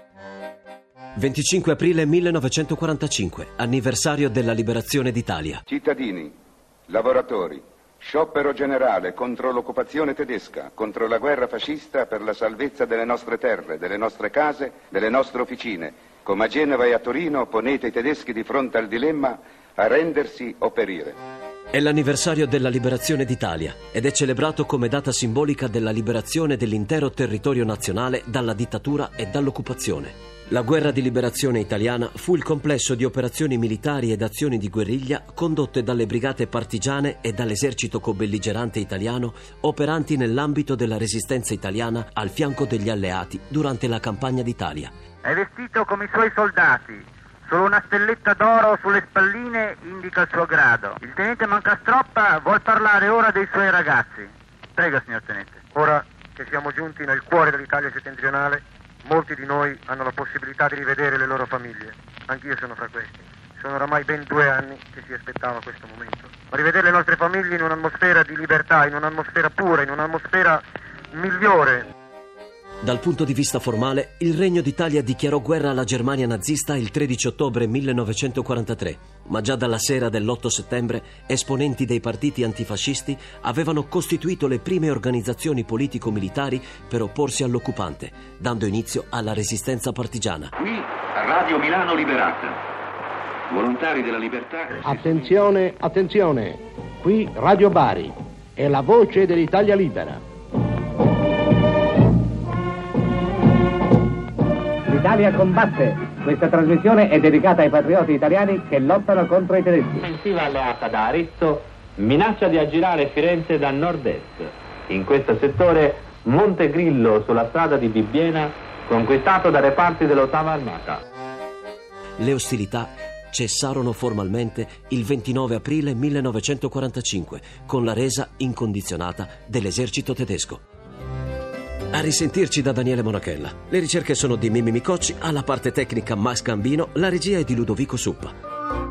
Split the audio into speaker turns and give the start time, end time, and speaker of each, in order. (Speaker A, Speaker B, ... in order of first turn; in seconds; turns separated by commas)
Speaker A: 1.2-5.6, Speaker B: 5.7-6.3, Speaker B: 6.9-21.2, Speaker A: 21.7-44.9, Speaker C: 45.2-55.6, Speaker D: 55.7-71.9, Speaker A: 72.8-90.5, Speaker E: 90.6-92.6, Speaker E: 93.5-94.8, Speaker F: 94.8-100.2, Speaker G: 104.9-110.1, Speaker H: 110.0-121.0, Speaker A: 122.2-130.6, Speaker A: 131.9-138.3